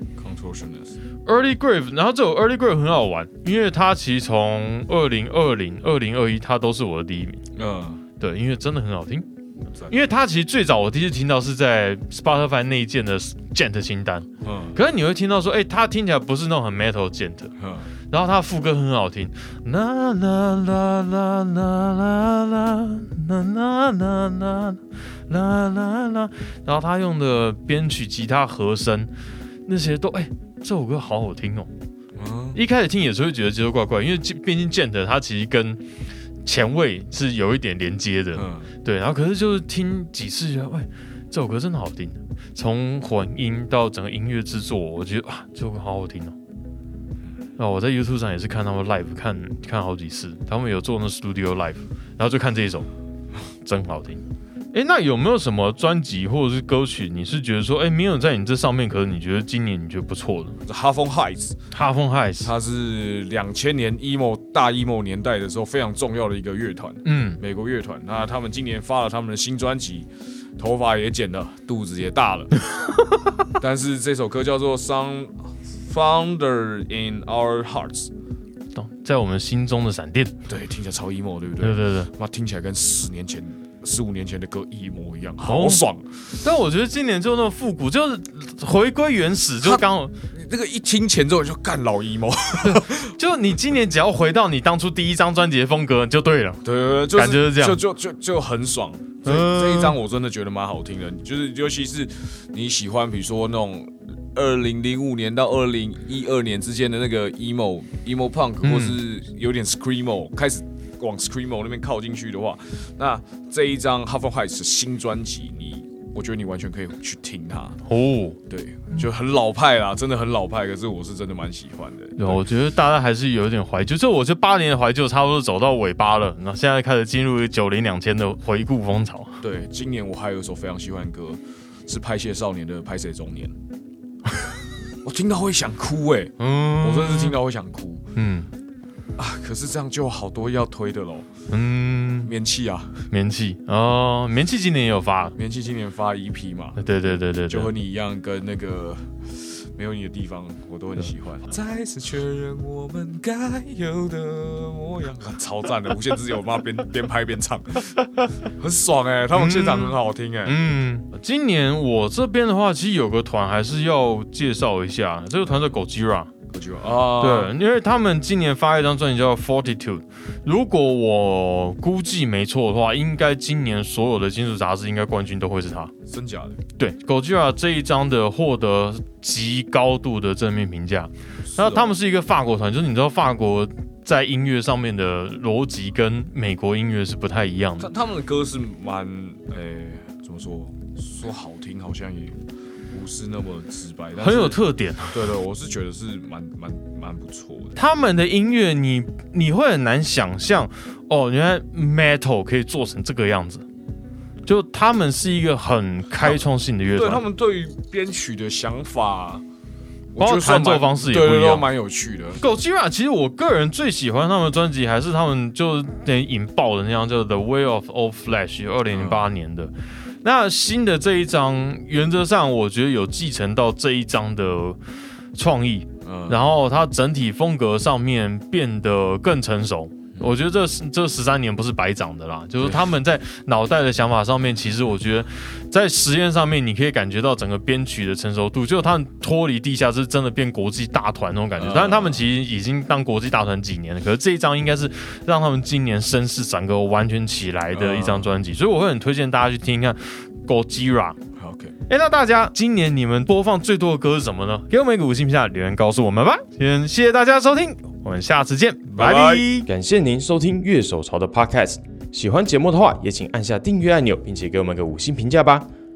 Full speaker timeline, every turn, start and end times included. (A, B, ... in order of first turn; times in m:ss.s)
0:00.2-0:01.0 A
0:01.2-0:07.4 B
0:07.5-0:08.0 A
0:08.2-0:09.3 B
0:09.9-0:17.5 B
0:14.4-0:14.8 A
0:17.6-0:17.9 A
0:18.1-0:29.1 B
0:29.6-0:31.7 B
0:32.2-0:32.6 A
0:32.5-0:35.8 B
0:36.4-0:46.3 B
0:38.3-0:38.7 A
0:47.6-0:52.9 B
0:53.6-1:00.6 B
1:00.6-1:01.6 A
1:01.7-1:02.5 B
1:02.4-1:12.6 A
1:07.0-1:07.4 B
1:13.5-1:18.1 A
1:18.7-1:20.3 B
1:20.4-1:26.2 A
1:21.6-1:22.1 B
1:25.4-1:25.8 B
1:26.4-1:30.1 B
1:29.6-1:33.1 A
1:32.6-1:36.6 B
1:36.6-1:57.8 A
1:37.1-1:37.8 B
1:39.2-1:40.0 B
1:48.6-1:49.0 B
1:57.8-1:58.4 B
1:58.5-2:02.4 A
2:02.2-2:09.4 B
2:09.4-2:13.5 A
2:15.0-2:18.0 A
2:16.4-2:17.4 B
2:18.2-2:18.5 B
2:19.2-2:21.3 A
2:21.5-2:22.3 B
2:22.2-2:23.0 A
2:23.1-2:25.4 B
2:25.4-2:26.8 A
2:26.8-2:27.7 B
2:27.5-2:40.6 A
2:39.3-2:46.3 B
2:45.4-2:45.7 A
2:46.5-2:47.5 A
2:47.2-2:55.9 B
2:56.0-2:56.6 A
2:56.8-3:07.9 B
3:01.5-3:02.0 A
3:07.8-3:12.4 A
3:12.9-3:17.8 A
3:14.2-3:15.2 B
3:17.8-3:23.6 B
3:24.4-3:27.2 B
3:26.9-3:29.4 A
3:30.1-3:32.4 A
3:30.2-3:31.7 B
3:32.4-3:44.8 B
3:38.9-3:39.2 A
3:45.3-4:11.2 B
3:46.0-3:46.4 A
3:52.6-3:52.8 A
4:01.6-4:02.2 A
4:07.7-4:08.3 A
4:11.4-4:11.8 A
4:11.9-4:19.7 B
4:18.9-4:19.5 A
4:19.6-4:25.7 C